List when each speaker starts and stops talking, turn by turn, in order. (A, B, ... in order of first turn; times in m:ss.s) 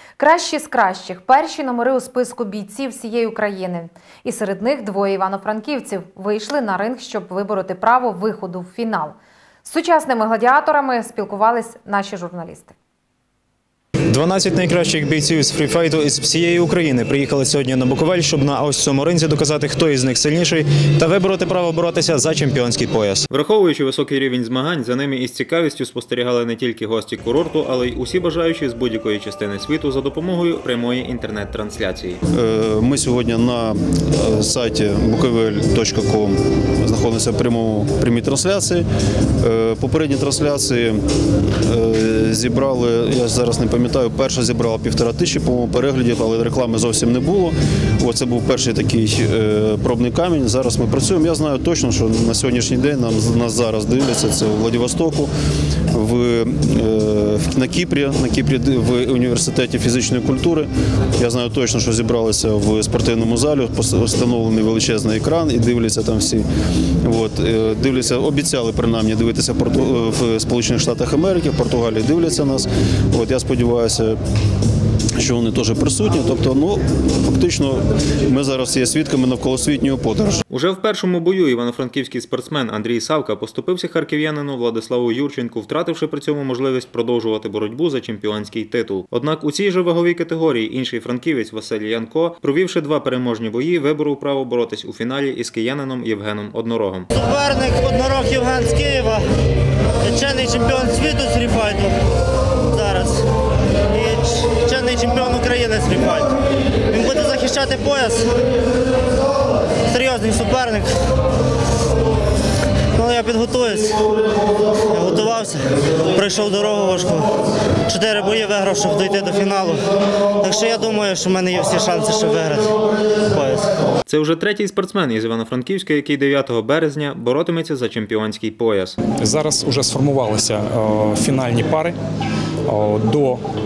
0:00.2-0:12.7 A
0:14.1-0:32.2 B
0:32.3-0:38.8 C
0:39.4-0:41.0 C
0:41.6-0:55.3 C
0:55.9-1:06.4 C
1:07.0-1:14.2 C
1:15.2-1:20.4 C
1:20.5-1:37.1 B
1:37.1-1:39.3 D
1:40.0-1:42.0 D
1:42.7-1:43.3 D
1:43.9-1:46.3 D
1:46.9-1:48.3 D
1:49.8-1:51.0 D
1:52.9-1:54.0 D
1:54.8-1:57.3 D
1:57.9-2:03.7 D
2:04.1-2:09.0 B
2:09.2-2:11.9 E
2:12.7-2:13.4 E